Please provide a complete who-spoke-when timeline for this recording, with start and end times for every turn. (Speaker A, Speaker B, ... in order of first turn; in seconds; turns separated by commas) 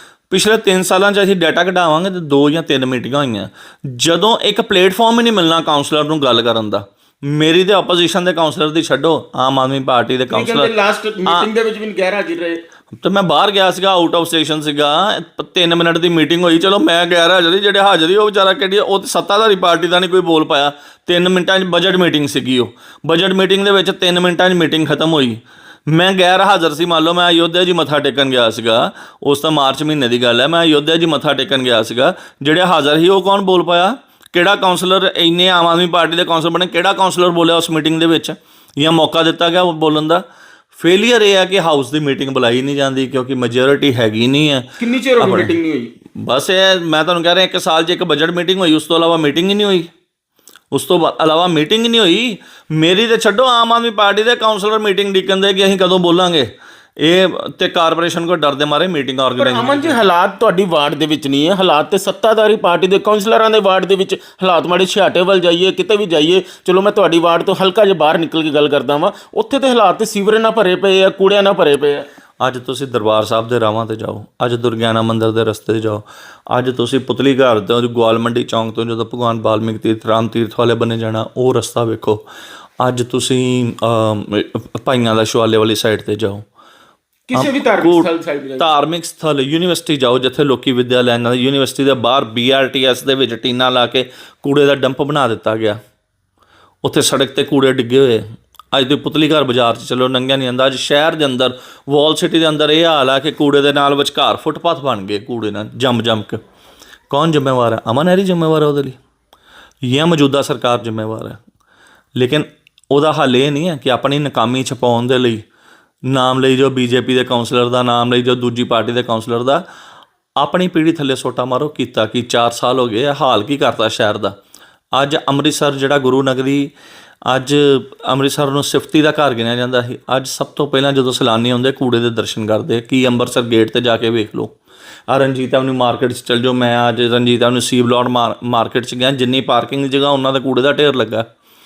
Speaker A: 0.3-10.7, Speaker B: 10.3-12.6, Speaker A: 12.9-40.2, Speaker A: 40.8-44.7, Speaker B: 44.8-45.9, Speaker A: 45.2-45.5, Speaker A: 46.1-49.9, Speaker A: 50.7-60.0, Speaker B: 59.4-72.0, Speaker A: 72.4-82.2, Speaker A: 82.8-86.4, Speaker B: 87.3-88.7, Speaker A: 87.3-95.8, Speaker A: 96.8-106.4, Speaker A: 107.1-109.0, Speaker A: 109.8-111.4, Speaker A: 112.2-115.4, Speaker A: 116.1-119.6, Speaker A: 120.4-124.3, Speaker A: 125.0-126.7, Speaker A: 127.3-134.5, Speaker A: 135.1-141.2